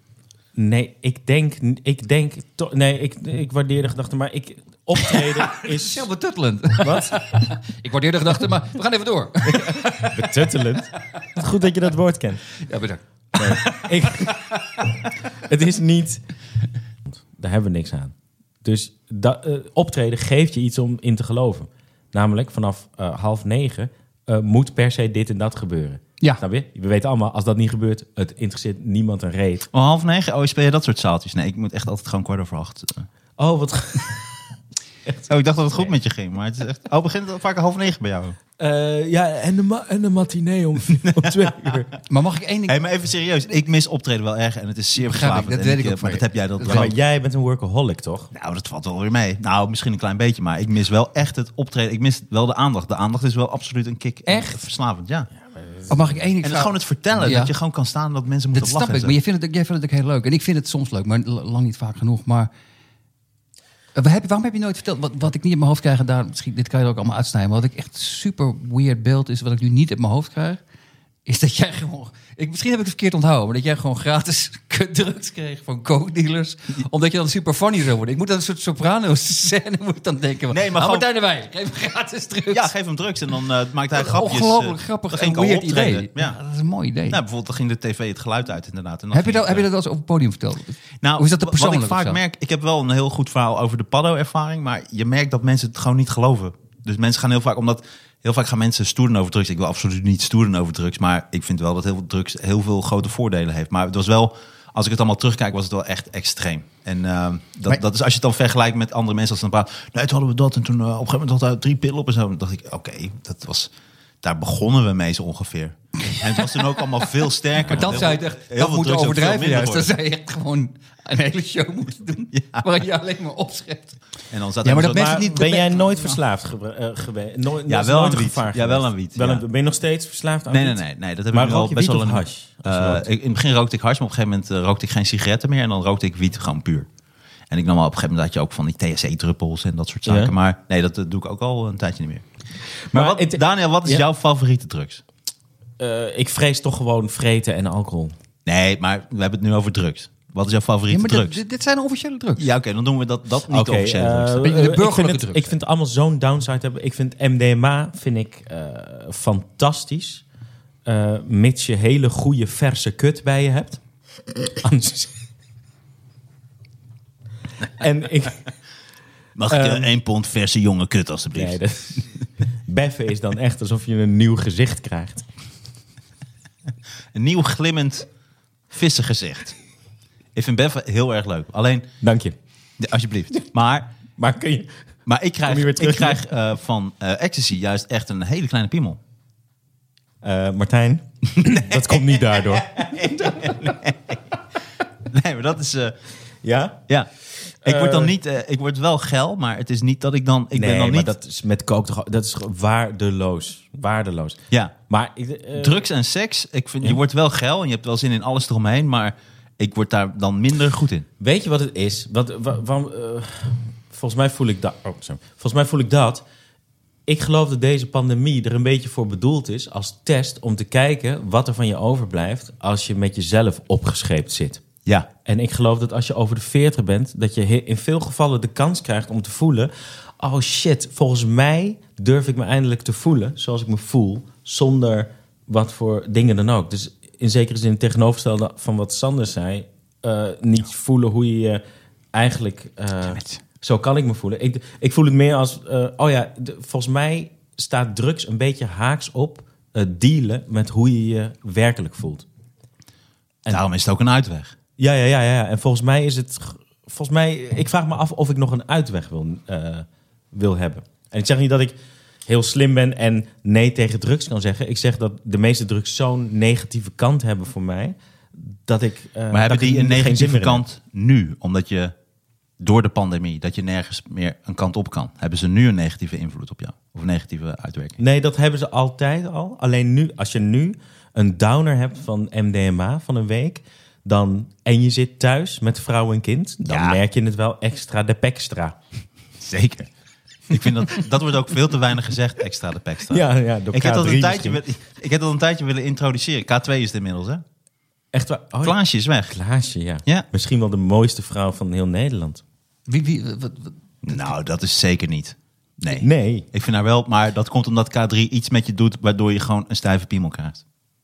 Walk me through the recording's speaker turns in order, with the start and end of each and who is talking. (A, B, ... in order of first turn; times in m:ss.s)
0:00.5-0:06.1 A
0:05.1-0:10.4 B
0:06.8-0:07.2 A
0:09.5-0:12.5 A
0:12.6-0:14.8 B
0:13.4-0:14.4 A
0:15.4-0:16.2 A
0:17.1-0:29.7 A
0:29.7-0:33.1 C
0:33.4-0:34.4 A
0:35.0-0:35.9 A
0:35.3-0:38.4 C
0:38.6-0:41.9 A
0:41.1-0:41.7 C
0:42.1-0:42.8 B
0:42.7-0:46.9 C
0:45.0-0:46.9 B
0:46.7-0:48.3 A
0:48.3-0:55.3 C
0:54.3-0:54.5 B
0:55.4-0:56.1 A
0:55.9-0:57.5 B
0:56.4-0:59.2 C
0:58.5-1:02.5 B
1:03.9-1:10.6 B
1:11.2-1:22.7 B
1:20.5-1:21.1 C
1:22.5-1:26.4 C
1:23.9-1:27.2 B
1:27.1-1:29.7 C
1:29.1-1:32.2 B
1:31.0-1:53.7 C
1:54.2-1:59.9 C
1:57.6-2:04.0 B
2:02.3-2:02.7 C
2:04.3-2:05.5 C
2:04.6-2:06.2 B
2:04.8-2:10.8 A
2:07.7-2:09.4 C
2:10.5-2:16.9 C
2:11.3-2:13.0 A
2:17.5-2:22.2 C
2:20.0-2:20.3 A
2:22.9-2:24.0 A
2:22.9-2:25.0 C
2:25.8-2:28.1 A
2:28.4-2:31.4 C
2:30.9-2:32.5 B
2:32.4-2:34.4 C
2:33.5-2:40.2 A
2:34.4-2:35.5 B
2:40.8-2:43.8 A
2:44.6-2:45.1 A
2:47.8-2:48.4 A
2:49.4-2:51.6 C
2:49.5-2:49.9 A
2:51.4-2:52.1 A
2:52.7-2:55.2 A
2:57.1-2:58.1 C
2:58.7-2:59.6 C
3:00.3-3:01.9 C
3:02.0-3:02.3 A
3:02.8-3:03.9 C
3:04.2-3:04.7 A
3:05.0-3:09.0 C
3:05.4-3:06.2 A
3:10.2-3:13.7 A
3:11.4-3:14.1 C
3:15.0-3:16.0 C
3:16.4-3:16.8 A
3:17.5-3:18.1 A
3:17.6-3:21.1 C
3:20.5-3:24.4 A
3:24.9-3:25.8 A
3:25.5-3:31.1 C
3:31.2-3:36.2 A
3:37.1-3:44.6 A
3:44.8-3:45.1 C
3:45.2-4:01.6 A
4:02.1-4:12.2 A
4:13.5-4:14.6 C
4:14.8-4:30.6 A
4:29.3-4:31.9 C
4:32.6-4:38.0 C
4:38.0-4:48.8 A
4:46.7-4:47.0 C
4:49.4-4:49.9 C
4:50.5-4:57.4 C
4:53.1-4:54.6 A
4:58.1-5:02.4 A
4:58.6-4:59.4 C
5:02.9-5:04.3 B
5:04.0-5:10.6 C
5:06.0-5:06.4 A